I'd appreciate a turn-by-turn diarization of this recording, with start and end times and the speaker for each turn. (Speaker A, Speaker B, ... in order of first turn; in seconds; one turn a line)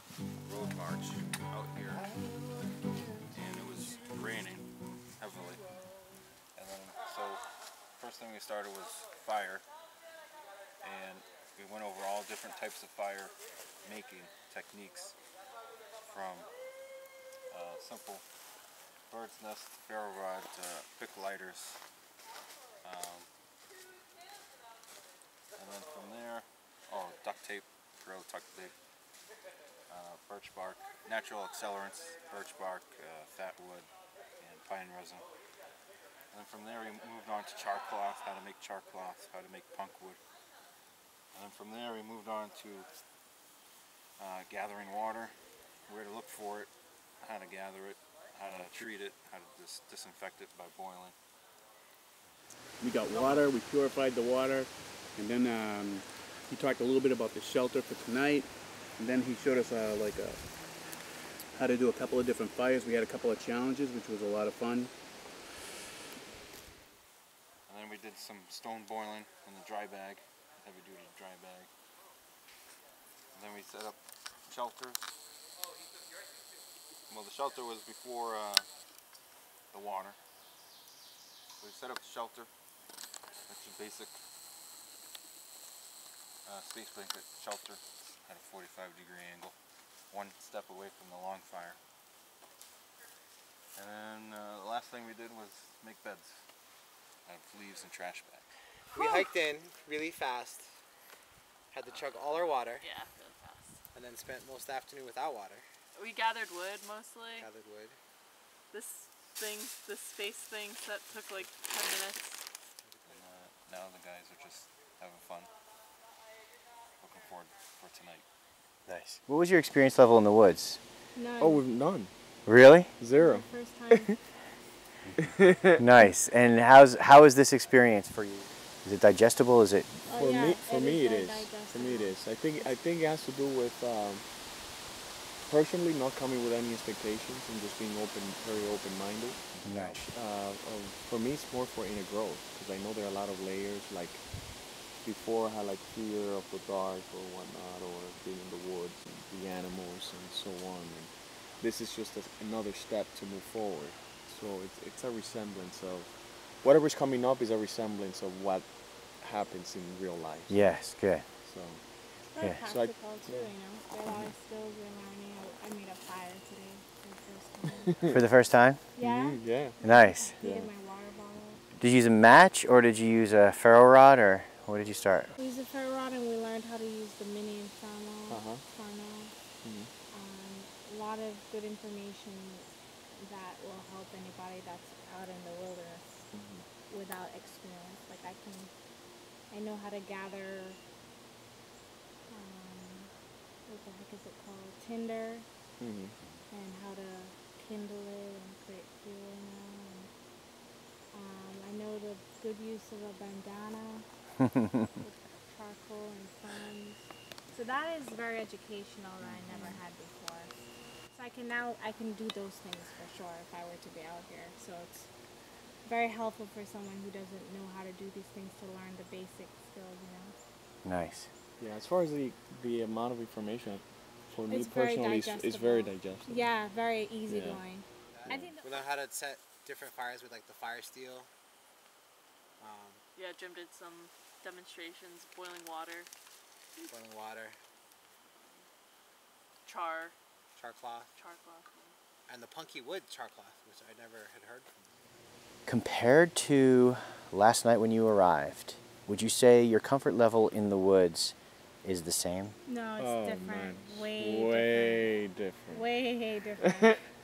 Speaker A: 0.4-2.1
Speaker A: 3.3-5.6
Speaker A: 6.5-7.4
Speaker A: 8.0-9.7
Speaker A: 10.8-15.2
Speaker A: 16.1-16.5
Speaker A: 17.5-18.2
Speaker A: 19.1-21.8
Speaker A: 22.8-23.3
Speaker A: 25.6-28.7
Speaker A: 29.9-33.9
Speaker A: 34.4-35.3
Speaker A: 36.3-40.2
Speaker A: 41.3-42.9
Speaker A: 44.2-45.4
Speaker A: 45.9-51.1
Speaker B: 48.5-48.7
Speaker B: 52.8-60.4
Speaker B: 61.5-64.9
Speaker A: 67.7-71.7
Speaker A: 73.3-75.1
Speaker A: 77.1-78.7
Speaker A: 79.7-80.2
Speaker A: 81.6-82.5
Speaker A: 83.5-84.2
Speaker A: 86.5-89.5
Speaker A: 90.1-91.8
Speaker A: 93.8-96.4
Speaker A: 97.3-98.5
Speaker C: 98.9-100.7
Speaker D: 99.0-99.3
Speaker C: 101.7-102.8
Speaker D: 102.7-103.8
Speaker C: 103.9-105.7
Speaker D: 106.0-107.5
Speaker C: 107.4-108.0
Speaker D: 108.7-112.4
Speaker C: 112.8-113.2
Speaker A: 113.0-115.5
Speaker A: 117.0-118.3
Speaker E: 118.9-120.8
Speaker F: 121.1-121.6
Speaker G: 121.4-122.1
Speaker E: 122.5-122.9
Speaker G: 123.0-124.1
Speaker F: 123.2-124.1
Speaker G: 125.2-125.8
Speaker E: 125.8-129.9
Speaker F: 130.1-132.7
Speaker G: 130.1-134.3
Speaker G: 135.5-144.3
Speaker E: 139.6-140.0
Speaker G: 145.0-160.8
Speaker E: 160.5-161.2
Speaker G: 161.4-161.8
Speaker F: 162.2-168.0
Speaker G: 162.6-163.5
Speaker G: 167.9-168.2
Speaker E: 168.1-168.9
Speaker F: 168.9-171.6
Speaker G: 169.0-169.8
Speaker E: 169.8-170.4
Speaker G: 170.4-170.7
Speaker E: 171.8-175.3
Speaker F: 175.3-179.3
Speaker G: 178.3-178.6
Speaker G: 179.6-179.9
Speaker F: 180.1-186.3
Speaker G: 186.3-186.7
Speaker F: 186.9-188.7
Speaker F: 189.5-190.8
Speaker F: 192.3-193.1
Speaker F: 193.7-195.5
Speaker G: 195.8-196.2
Speaker F: 196.5-200.1
Speaker F: 201.1-204.1
Speaker F: 205.0-207.0
Speaker F: 207.5-210.5
Speaker G: 209.2-209.8
Speaker F: 211.1-215.1
Speaker F: 215.8-220.3
Speaker E: 220.8-221.3
Speaker G: 221.6-226.6
Speaker F: 224.5-228.9
Speaker G: 227.3-227.6
Speaker C: 228.1-231.3
Speaker C: 232.6-233.0
Speaker D: 233.2-236.1
Speaker C: 236.9-237.6
Speaker D: 238.4-238.7
Speaker D: 239.7-240.2
Speaker C: 240.6-241.1
Speaker D: 241.2-242.0
Speaker C: 242.3-244.7
Speaker E: 245.7-252.6
Speaker F: 252.7-255.1
Speaker G: 253.0-255.9
Speaker F: 255.7-257.1
Speaker G: 256.6-256.9